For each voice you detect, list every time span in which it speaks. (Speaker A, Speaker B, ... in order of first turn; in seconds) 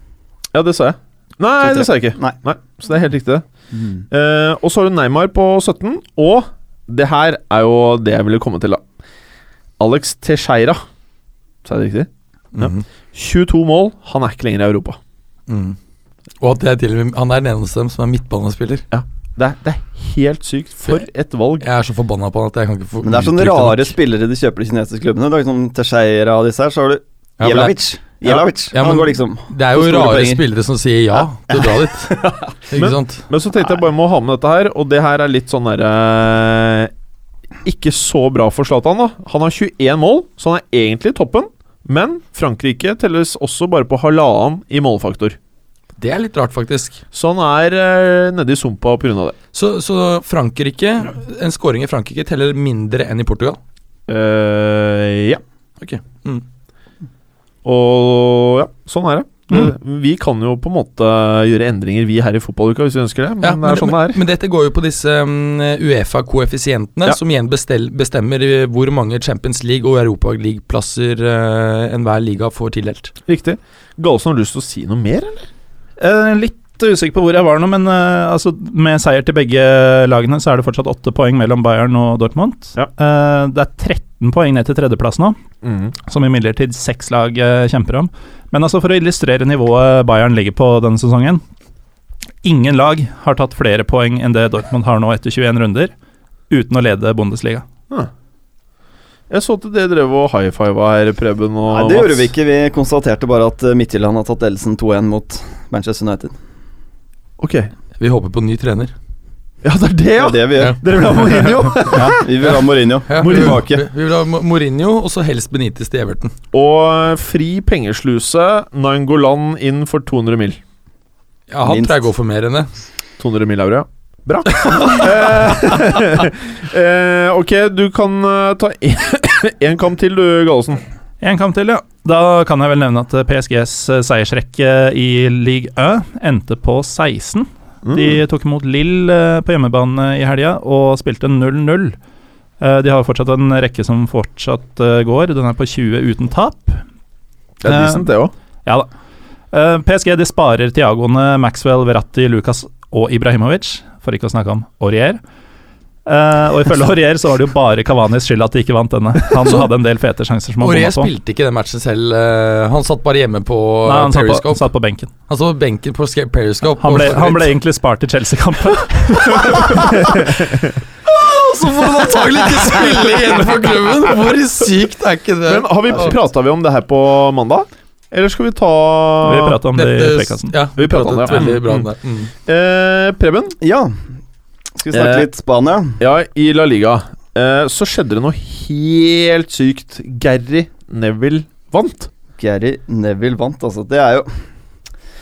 Speaker A: 0.5-3.4, 4.1-8.8, 9.8-10.8, 11.6-15.0, 18.9-21.7, 32.7-36.9, 37.6-45.4, 47.1-49.4, 54.1-55.4, 57.6-64.2, 73.3-75.5, 85.6-86.0, 99.3-102.3, 107.4-107.7, 109.6-112.5, 113.1-113.6, 116.5-120.6, 123.2-130.8, 137.8-138.2, 147.6-148.3, 170.0-170.7, 175.5-179.6, 180.8-181.9, 182.5-183.6, 184.9-185.3, 186.0-192.1
Speaker B: 1.6-2.4, 3.7-4.0, 23.0-30.4, 31.2-32.5, 101.7-106.3, 110.2-110.8, 112.2-113.8, 121.6-122.0, 183.6-183.9, 184.8-186.0, 192.4-194.3
Speaker C: 12.6-12.8, 15.5-15.8, 16.4-18.9, 21.6-24.0, 27.4-33.3, 46.0-47.0, 49.5-53.6, 55.8-56.5, 63.4-73.1, 108.0-108.9, 113.1-116.3, 121.5-122.7, 160.6-164.7, 165.3-167.5, 169.4-169.8, 171.1-176.1, 179.8-182.3
Speaker D: 76.0-85.4, 86.1-91.4, 92.4-95.9, 96.5-97.6, 131.2-142.0, 142.6-146.8, 147.6-148.1, 149.5-155.2, 156.1-161.1, 163.9-165.1, 166.8-170.0, 179.2-180.5